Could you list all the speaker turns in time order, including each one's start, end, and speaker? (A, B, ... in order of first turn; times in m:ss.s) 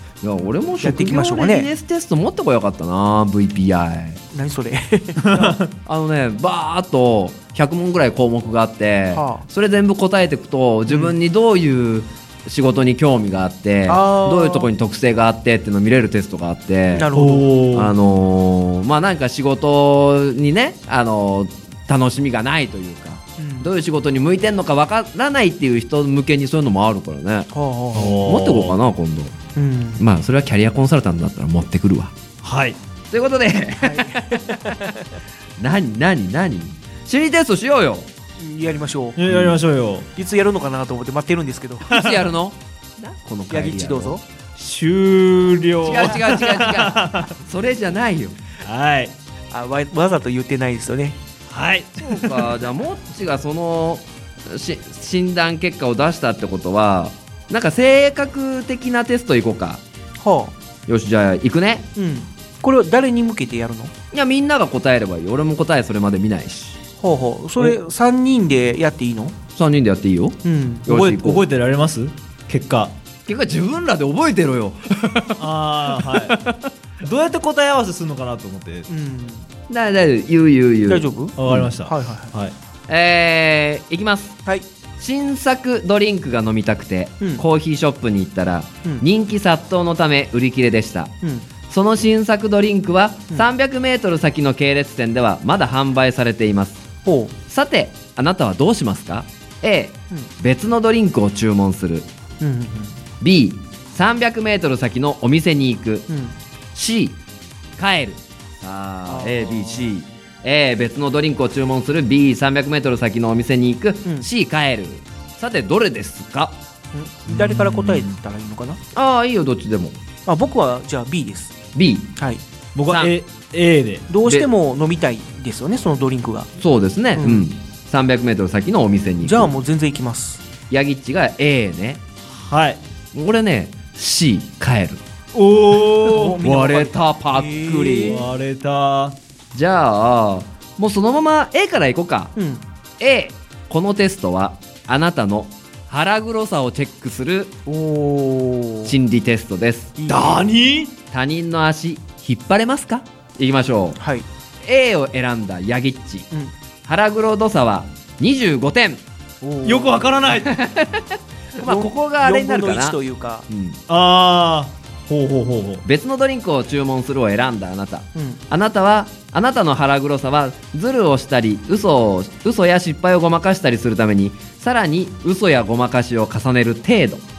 0:00.2-0:04.2 A
0:00.8-0:01.7 B
0:04.3-0:05.6 B
0:05.9-0:17.1 A
0:09.1-0:09.4 B
0:10.9-0:11.2 B
0:13.9-0:14.7 B
0:16.9-0:17.5 B
0:17.1-0:18.0 C
0:17.7-0:27.5 A
0:23.4-0:23.7 B
0:27.5-0:28.2 B
0:28.0-0:28.8 C
0:28.2-0:29.4 A
0:29.6-0:30.0 B
0:30.0-0:32.1 A
0:32.4-0:32.8 C
0:33.1-0:34.2 A
0:33.8-0:34.8 B
0:35.6-0:38.1 A
0:38.4-0:39.2 B
0:39.2-0:40.1 C
0:39.3-0:39.6 A
0:40.2-0:41.9 B
0:41.9-0:44.2 A
0:41.9-0:42.2 C
0:43.5-0:44.2 B
0:44.6-0:47.3 C
0:45.8-0:48.4 A
0:48.6-0:49.1 C
0:49.5-0:51.2 B
0:51.5-0:52.3 C
0:52.0-0:59.8 A
1:00.2-1:00.5 B
1:00.9-1:01.9 A
1:02.0-1:03.9 B
1:04.1-1:06.8 A
1:07.0-1:09.4 B
1:09.6-1:11.4 A
1:10.4-1:10.9 B
1:10.9-1:12.9 C
1:13.3-1:15.4 A
1:15.4-1:16.4 C
1:16.1-1:16.6 A
1:17.0-1:18.9 C
1:18.9-1:19.5 B
1:19.7-1:21.7 A
1:20.9-1:22.3 B
1:21.4-1:22.6 C
1:22.9-1:24.4 A
1:25.0-1:31.2 A
1:31.7-1:36.8 A
1:37.0-1:37.3 B
1:37.5-1:42.1 A
1:42.4-1:43.0 B
1:43.2-1:46.1 A
1:46.1-1:46.4 B
1:46.8-1:47.2 A
1:47.8-1:56.6 A
1:49.1-1:49.9 B
1:56.9-1:58.8 B
1:57.3-1:58.2 C
1:58.9-2:00.0 A
2:00.3-2:01.6 B
2:01.8-2:02.1 A
2:02.2-2:02.4 B
2:02.8-2:04.0 C
2:02.9-2:03.1 A
2:04.1-2:06.5 B
2:06.6-2:09.6 A
2:07.2-2:07.5 B
2:09.2-2:10.4 B
2:10.7-2:12.0 A
2:12.3-2:12.8 C
2:13.1-2:15.0 A
2:15.3-2:16.4 C
2:16.1-2:18.2 B
2:16.4-2:18.2 A
2:18.1-2:19.2 C
2:19.5-2:22.3 A
2:22.4-2:22.6 B
2:23.0-2:27.5 A
2:27.7-2:28.9 B
2:28.8-2:30.0 A
2:30.0-2:30.4 B
2:30.1-2:31.0 C
2:31.1-2:34.0 A
2:34.0-2:34.2 B
2:34.6-2:36.3 A
2:36.9-2:39.0 A
2:39.4-2:40.0 B
2:39.6-2:40.6 C
2:40.5-2:41.1 A
2:41.6-2:43.0 A
2:41.6-2:43.4 B
2:43.5-2:43.8 A
2:43.9-2:45.8 C
2:45.8-2:57.2 A
2:48.2-2:48.4 B